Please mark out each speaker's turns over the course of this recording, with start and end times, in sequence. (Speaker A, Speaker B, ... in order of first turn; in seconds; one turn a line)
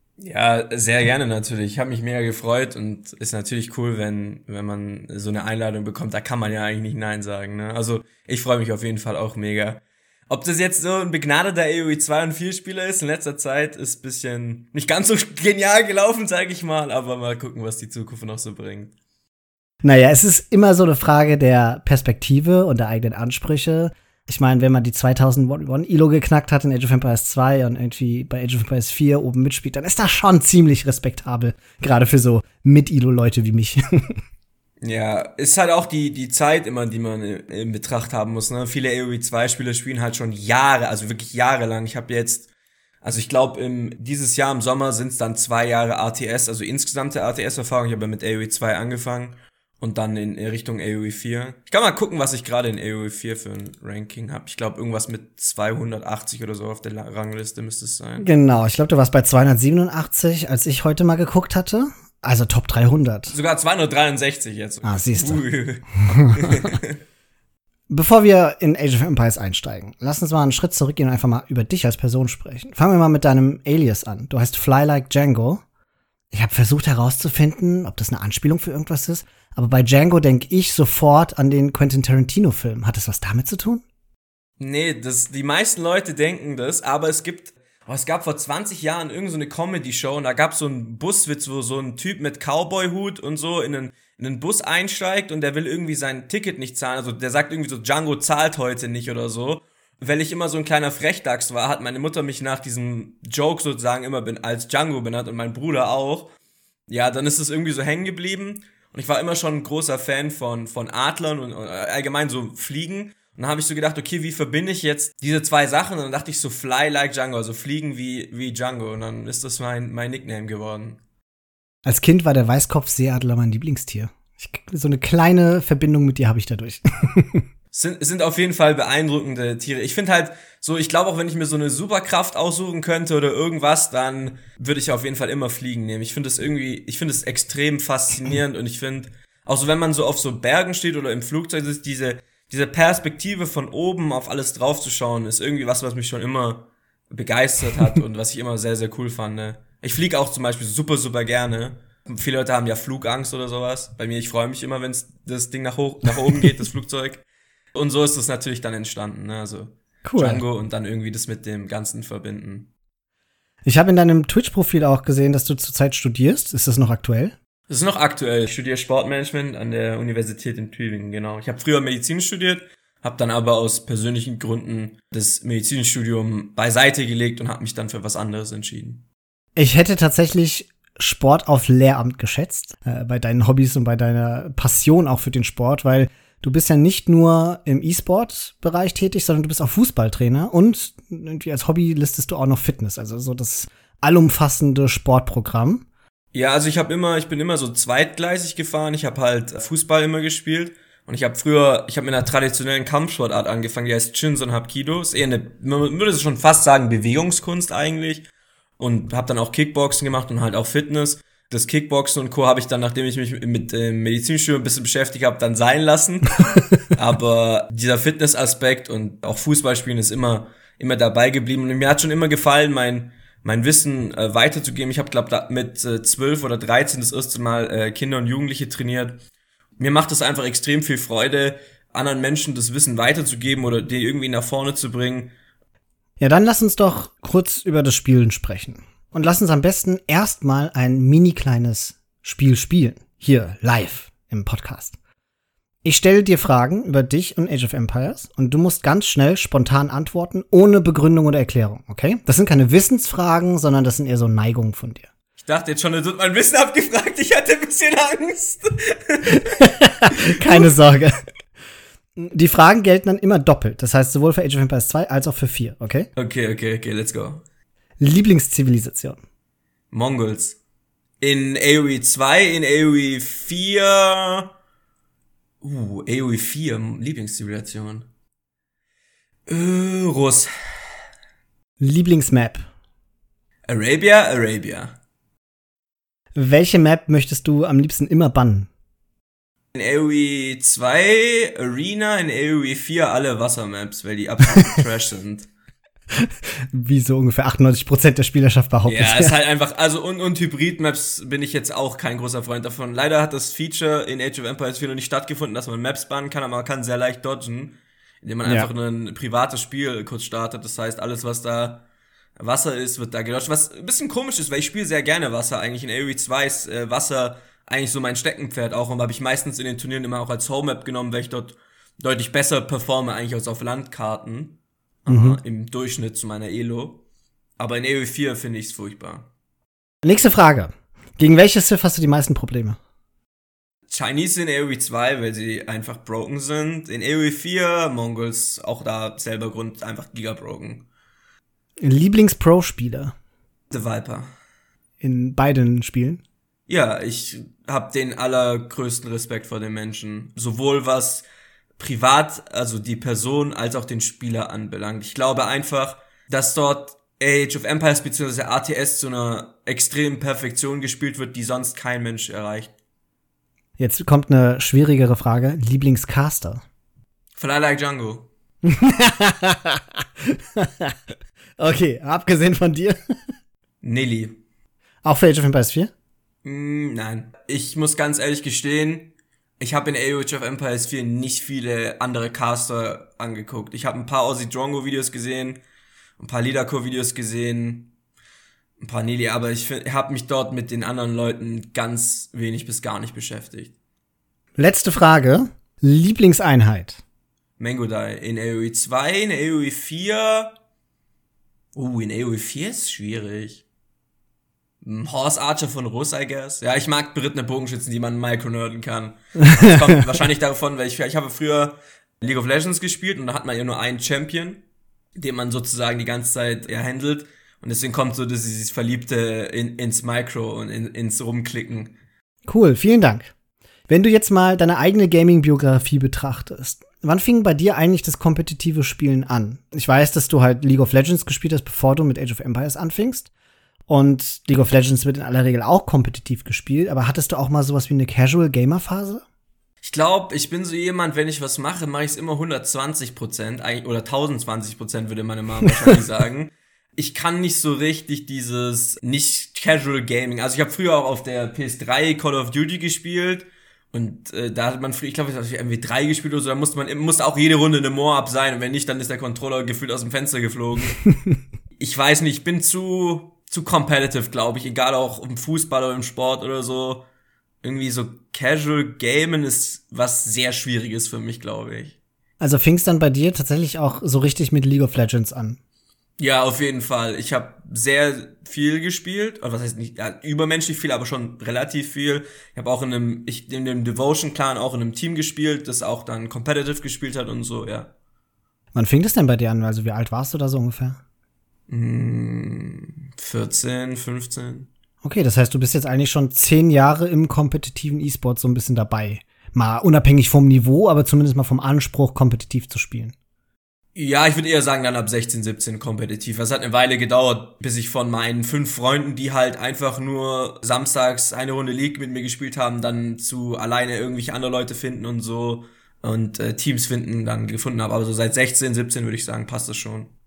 Speaker A: 0.2-18.9
Speaker B: 19.8-34.2
Speaker A: 34.8-42.5
Speaker A: 43.0-58.3
Speaker B: 58.2-63.3
Speaker A: 63.3-67.0
Speaker B: 64.8-65.5
Speaker B: 66.2-66.7
Speaker B: 67.9-75.6
Speaker B: 76.3-83.8
Speaker A: 84.6-106.3
Speaker A: 106.9-121.0
Speaker B: 121.8-127.4
Speaker A: 127.7-162.7
Speaker B: 160.0-160.4
Speaker B: 163.6-167.3
Speaker A: 167.7-179.0
Speaker B: 179.6-195.8
Speaker A: 196.3-229.2
Speaker A: 229.8-235.3
Speaker B: 236.2-244.9
Speaker B: 245.8-255.1
Speaker A: 255.4-260.6
Speaker B: 259.3-261.2
Speaker B: 262.2-266.1
Speaker A: 266.1-267.4
Speaker B: 268.0-269.2
Speaker A: 269.9-270.6
Speaker A: 271.2-274.5
Speaker A: 275.6-278.1
Speaker A: 279.5-280.5
Speaker B: 281.8-282.7
Speaker A: 283.7-284.9
Speaker B: 286.4-288.7
Speaker A: 289.7-295.5
Speaker B: 296.1-299.3
Speaker A: 298.9-311.8
Speaker A: 312.4-327.0
Speaker B: 325.1-325.4
Speaker A: 327.6-329.3
Speaker B: 330.0-332.8
Speaker A: 333.9-340.8
Speaker B: 341.8-343.1
Speaker A: 343.7-344.3
Speaker B: 345.0-346.2
Speaker A: 346.7-351.2
Speaker A: 351.8-362.7
Speaker B: 363.8-366.6
Speaker A: 367.4-368.3
Speaker B: 368.6-371.0
Speaker B: 371.6-373.0
Speaker A: 373.8-374.4
Speaker B: 375.0-375.9
Speaker A: 376.4-385.6
Speaker A: 386.2-387.9
Speaker A: 388.8-393.7
Speaker B: 394.6-397.0
Speaker A: 397.6-400.5
Speaker A: 401.7-403.6
Speaker A: 404.8-414.6
Speaker B: 409.6-409.9
Speaker A: 415.1-421.9
Speaker B: 422.5-423.3
Speaker B: 423.9-433.3
Speaker B: 433.9-439.2
Speaker A: 439.8-461.0
Speaker A: 461.8-467.0
Speaker A: 467.6-471.9
Speaker B: 472.4-475.6
Speaker A: 476.2-487.9
Speaker B: 488.7-491.0
Speaker A: 491.7-494.7
Speaker B: 495.0-503.1
Speaker A: 503.9-520.1